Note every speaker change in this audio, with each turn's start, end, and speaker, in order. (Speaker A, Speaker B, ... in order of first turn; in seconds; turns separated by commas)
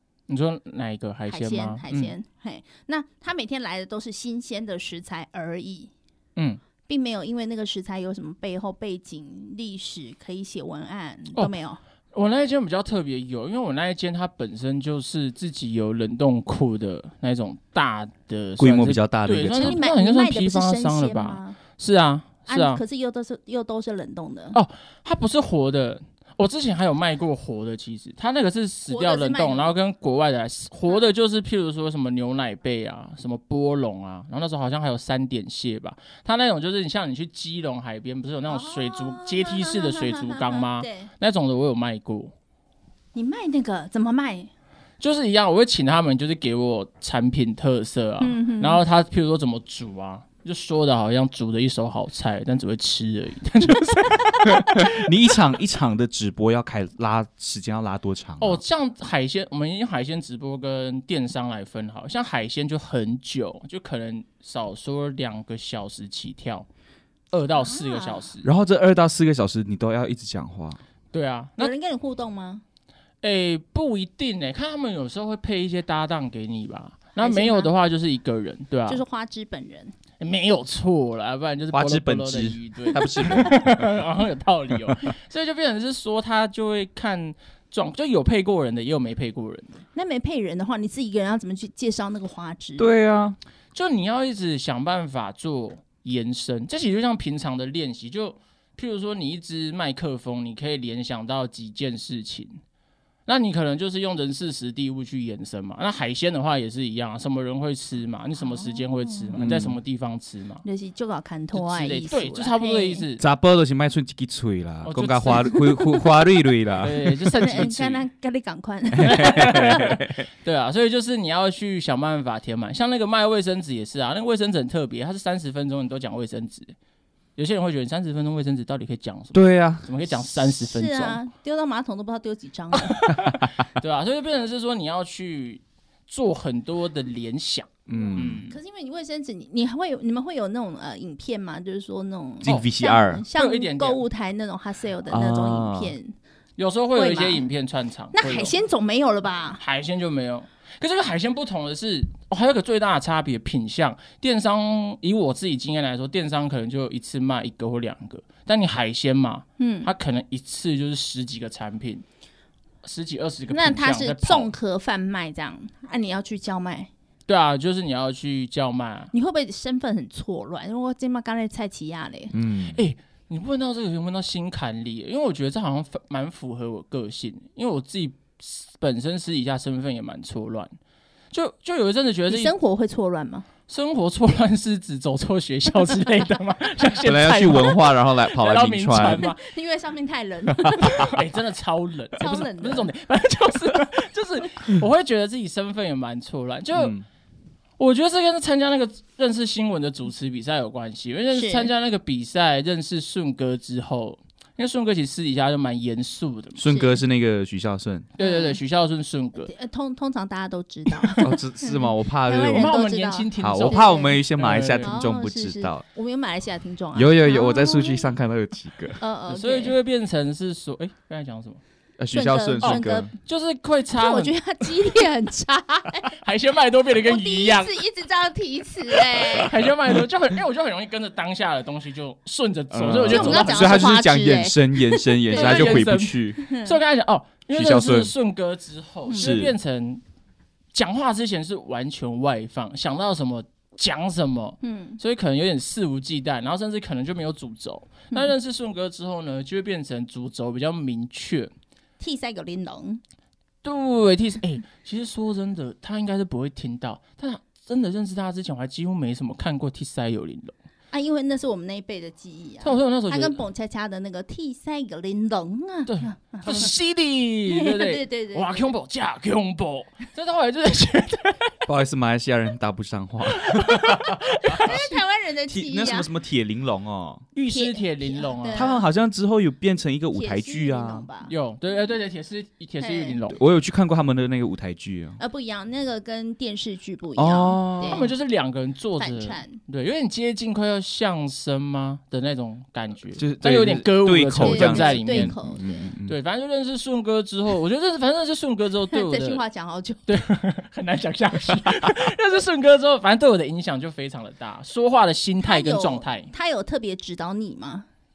Speaker A: 0.3-2.1, Speaker B: 1.3-5.9, Speaker B: 6.9-11.8, Speaker A: 12.1-22.8, Speaker C: 18.6-19.8, Speaker B: 19.5-21.6, Speaker B: 22.5-24.6, Speaker A: 24.5-42.3, Speaker B: 28.9-29.7, Speaker B: 38.5-41.1, Speaker B: 43.1-44.5, Speaker A: 45.0-54.5, Speaker B: 48.2-48.8, Speaker C: 54.5-58.6, Speaker A: 58.4-66.7, Speaker A: 67.3-68.5, Speaker B: 67.5-68.3, Speaker C: 68.4-70.8, Speaker A: 71.1-71.7, Speaker B: 71.6-72.6, Speaker A: 73.2-79.0, Speaker B: 77.2-77.7, Speaker B: 78.9-79.9, Speaker A: 80.2-89.8, Speaker C: 81.7-83.9, Speaker B: 83.0-83.4, Speaker B: 89.9-92.9, Speaker C: 92.8-93.4, Speaker A: 93.7-102.6, Speaker A: 103.3-110.6, Speaker B: 108.4-109.4, Speaker C: 109.4-109.8, Speaker B: 110.6-113.0, Speaker A: 111.5-113.2, Speaker C: 113.2-117.7, Speaker A: 114.8-115.5, Speaker B: 115.3-116.1, Speaker A: 116.8-118.0, Speaker B: 117.3-119.8, Speaker C: 119.0-120.2, Speaker A: 119.0-126.7, Speaker A: 127.3-131.2, Speaker C: 129.3-129.9, Speaker B: 130.5-133.0, Speaker A: 132.7-138.6, Speaker C: 137.9-138.4, Speaker B: 138.5-146.1, Speaker C: 142.4-143.2, Speaker A: 143.3-144.0, Speaker C: 145.1-145.9, Speaker A: 146.6-148.6, Speaker B: 146.9-147.4, Speaker B: 148.1-149.6, Speaker A: 149.6-162.0, Speaker B: 159.6-159.9, Speaker A: 162.8-164.5, Speaker B: 163.5-166.9, Speaker A: 167.3-169.1, Speaker B: 169.1-172.3, Speaker C: 172.3-172.8, Speaker A: 172.7-180.7, Speaker A: 181.3-182.5, Speaker B: 182.3-183.5, Speaker A: 183.7-189.4, Speaker C: 187.0-189.2, Speaker B: 187.4-187.7, Speaker B: 189.0-191.1, Speaker A: 191.0-197.0, Speaker B: 192.2-192.9, Speaker C: 196.7-197.0, Speaker A: 197.8-206.6, Speaker B: 201.3-201.7, Speaker C: 206.6-208.1, Speaker B: 206.7-207.0, Speaker A: 208.2-209.5, Speaker B: 208.2-208.6, Speaker B: 209.4-214.2, Speaker C: 211.2-212.7, Speaker A: 212.6-215.0, Speaker C: 213.4-215.8, Speaker B: 214.8-218.1, Speaker C: 216.9-219.0, Speaker B: 219.0-219.7, Speaker A: 219.3-221.6, Speaker C: 222.0-223.1, Speaker B: 222.1-223.1, Speaker A: 222.6-224.4, Speaker B: 223.9-226.2, Speaker A: 226.1-227.8, Speaker B: 227.0-229.6, Speaker A: 229.3-233.9, Speaker C: 232.7-236.4, Speaker B: 233.0-235.8, Speaker A: 235.3-240.0, Speaker B: 236.5-236.8, Speaker C: 237.5-238.1, Speaker B: 239.1-239.4, Speaker C: 239.2-239.5, Speaker A: 240.7-251.5, Speaker B: 244.6-245.0, Speaker B: 252.0-253.0, Speaker A: 253.6-260.5, Speaker B: 260.9-266.7, Speaker A: 262.6-263.4, Speaker A: 265.9-271.6, Speaker B: 267.5-268.7, Speaker C: 271.7-274.9, Speaker A: 273.6-274.7, Speaker B: 274.5-276.1, Speaker C: 275.5-277.2, Speaker A: 277.3-278.7, Speaker B: 277.5-278.8, Speaker C: 278.5-281.1, Speaker B: 280.1-281.3, Speaker A: 281.2-283.4, Speaker B: 282.8-283.2, Speaker C: 283.3-285.2, Speaker B: 285.2-288.1, Speaker C: 287.2-288.1, Speaker A: 287.8-295.4, Speaker B: 289.0-289.6, Speaker C: 293.1-296.1, Speaker B: 294.3-295.9, Speaker A: 296.0-299.4, Speaker B: 298.9-300.1, Speaker A: 300.1-306.3, Speaker B: 305.4-307.9